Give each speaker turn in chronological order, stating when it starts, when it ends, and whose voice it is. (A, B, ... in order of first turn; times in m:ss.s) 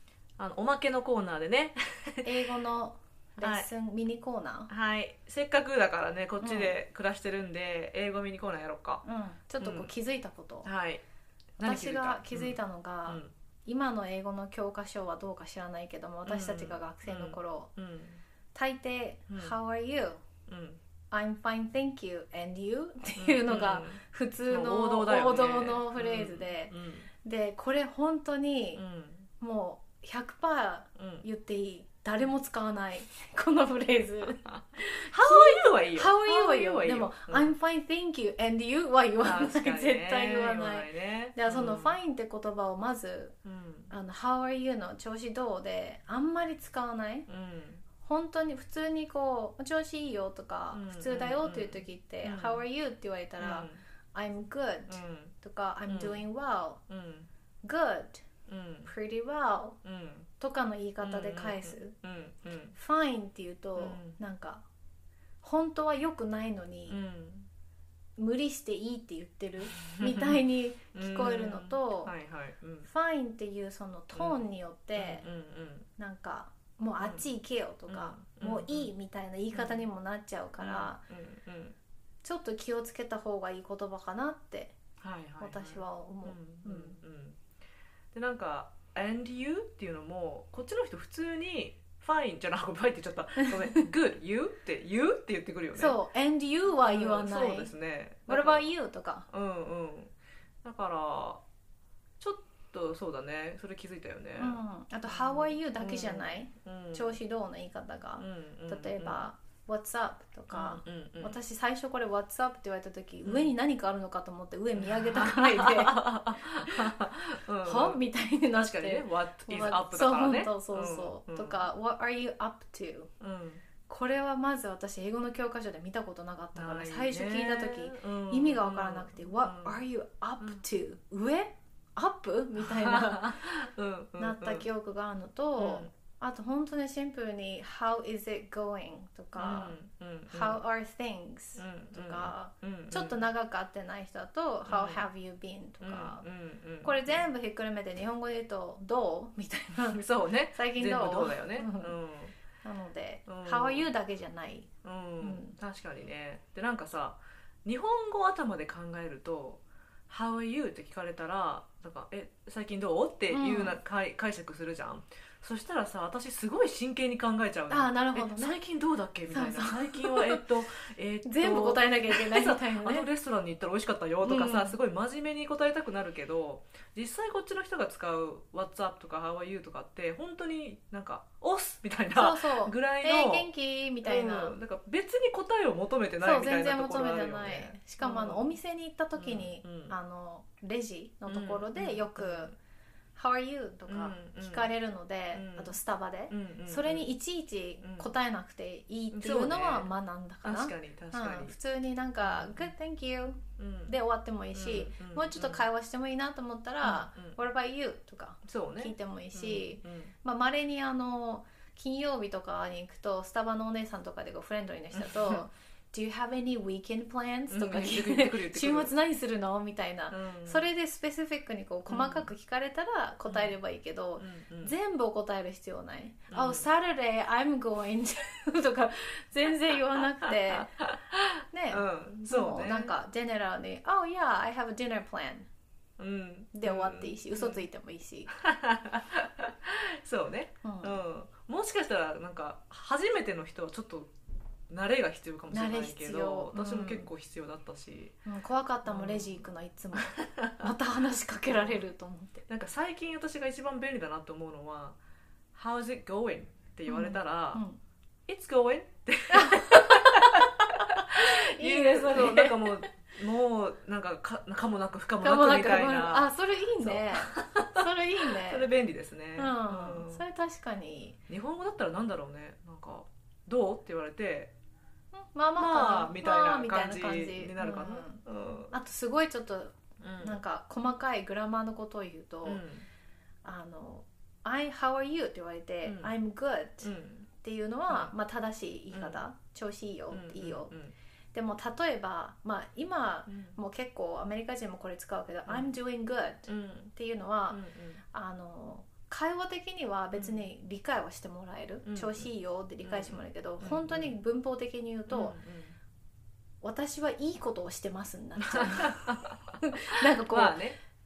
0:00.4-0:02.3 A
0:02.2-0:04.7 B
0:03.4-0:03.7 A
0:04.7-0:09.0 A
0:06.4-0:06.8 B
0:09.0-0:10.7 B
0:09.6-0:09.9 A
0:10.6-0:11.0 A
0:11.6-0:12.6 A
0:11.6-0:17.7 B
0:13.1-0:13.3 A
0:16.2-0:18.2 A
0:18.5-0:20.2 B
0:19.3-0:19.5 A
0:20.5-0:20.8 A
0:21.1-0:28.8 B
0:23.2-0:27.1 A
0:28.7-0:29.3 A
0:29.4-0:43.4 B
0:31.0-0:31.2 A
0:34.4-0:37.5 A
0:39.2-0:42.0 A
0:43.4-0:43.9 A
0:43.9-0:47.3 B
0:47.3-0:47.8 A
0:48.0-0:56.8 B
0:50.7-0:52.6 A
0:53.4-0:53.8 A
0:54.9-0:55.3 A
0:55.9-0:56.2 A
0:56.9-0:57.3 A
0:57.6-0:58.2 B
0:58.5-0:58.9 A
0:58.8-0:59.8 B
0:59.8-1:00.3 A
1:00.4-1:01.9 B
1:01.0-1:02.7 A
1:02.7-1:04.6 B
1:03.8-1:04.2 A
1:05.4-1:07.0 B
1:06.9-1:07.5 A
1:08.2-1:12.1 B
1:09.6-1:10.4 A
1:10.9-1:12.9 A
1:12.8-1:15.2 B
1:14.1-1:14.4 A
1:15.0-1:15.9 A
1:16.0-1:21.0 B
1:17.0-1:17.3 A
1:17.9-1:18.9 A
1:19.5-1:19.9 A
1:20.6-1:21.8 A
1:22.2-1:24.7 B
1:25.0-1:27.4 A
1:25.4-1:27.0 B
1:28.1-1:36.0 A
1:35.7-1:37.7 B
1:36.7-1:38.7 A
1:38.2-1:39.3 B
1:39.3-1:40.1 A
1:40.6-1:41.4 A
1:42.2-1:47.2 A
1:44.4-1:56.0 B
1:48.2-1:49.3 A
1:50.5-1:51.4 A
1:53.2-1:53.5 A
1:54.7-1:58.0 A
1:57.6-2:03.1 B
1:58.5-2:01.6 A
2:03.2-2:03.6 A
2:03.9-2:13.4 B
2:06.5-2:09.8 A
2:12.6-2:14.6 A
2:14.2-2:19.8 B
2:15.6-2:15.9 A
2:19.4-2:20.6 A
2:20.3-2:26.2 B
2:21.6-2:23.2 A
2:24.7-2:25.0 A
2:25.8-2:27.3 A
2:26.8-2:30.0 B
2:29.9-2:32.3 A
2:30.5-2:32.0 B
2:32.6-2:34.7 B
2:33.2-2:33.9 A
2:34.8-3:03.5 A
2:35.2-2:35.6 B
2:43.3-2:43.8 B
2:47.7-2:48.6 B
2:49.3-2:50.4 B
2:51.2-2:53.1 B
2:54.2-2:54.8 B
3:02.1-3:04.6 B
3:04.0-3:08.5 A
3:06.2-3:12.5 B
3:09.2-3:09.9 A
3:11.3-3:12.5 A
3:13.2-3:50.7 B
3:13.9-3:14.7 A
3:15.3-3:15.8 A
3:16.3-3:17.1 A
3:17.8-3:18.1 A
3:19.1-3:19.9 A
3:20.4-3:21.5 A
3:22.2-3:22.7 A
3:23.6-3:24.0 A
3:24.5-3:25.6 A
3:26.8-3:27.4 A
3:28.4-3:30.1 A
3:34.9-3:35.4 A
3:37.5-3:38.9 A
3:40.1-3:40.7 A
3:41.9-3:42.3 A
3:43.3-3:43.6 A
3:44.2-3:44.7 A
3:46.3-3:46.7 A
3:50.6-3:51.2 A
3:51.5-3:55.5 B
3:51.7-3:52.9 A
3:56.0-3:57.6 A
3:56.5-3:58.3 B
3:58.3-4:04.1 A
4:00.6-4:01.0 B
4:04.7-4:08.2 A
4:05.5-4:07.1 B
4:08.2-4:12.4 B
4:08.8-4:09.5 A
4:10.1-4:10.7 A
4:11.5-4:11.8 A
4:12.5-4:15.0 A
4:15.5-4:17.6 A
4:16.8-4:17.8 B
4:18.3-4:30.2 A
4:19.3-4:20.4 B
4:21.1-4:23.0 B
4:25.2-4:28.7 B
4:29.4-4:31.2 B
4:31.3-4:34.5 A
4:35.1-4:42.6 B
4:35.6-4:38.7 A
4:40.0-4:40.4 A
4:42.4-4:42.9 A
4:43.4-4:50.7 B
4:45.8-4:46.1 A
4:46.8-4:47.3 A
4:47.9-4:48.1 A
4:48.9-4:49.2 A
4:50.1-4:50.9 A
4:51.3-4:57.6 B
4:53.3-4:53.6 A
4:56.5-4:56.9 A
4:57.5-4:58.0 A
4:58.1-5:05.3 B
5:00.1-5:00.5 A
5:01.8-5:02.3 A
5:02.8-5:04.1 A
5:05.1-5:05.8 A
5:06.6-5:10.6 B
5:08.4-5:10.8 A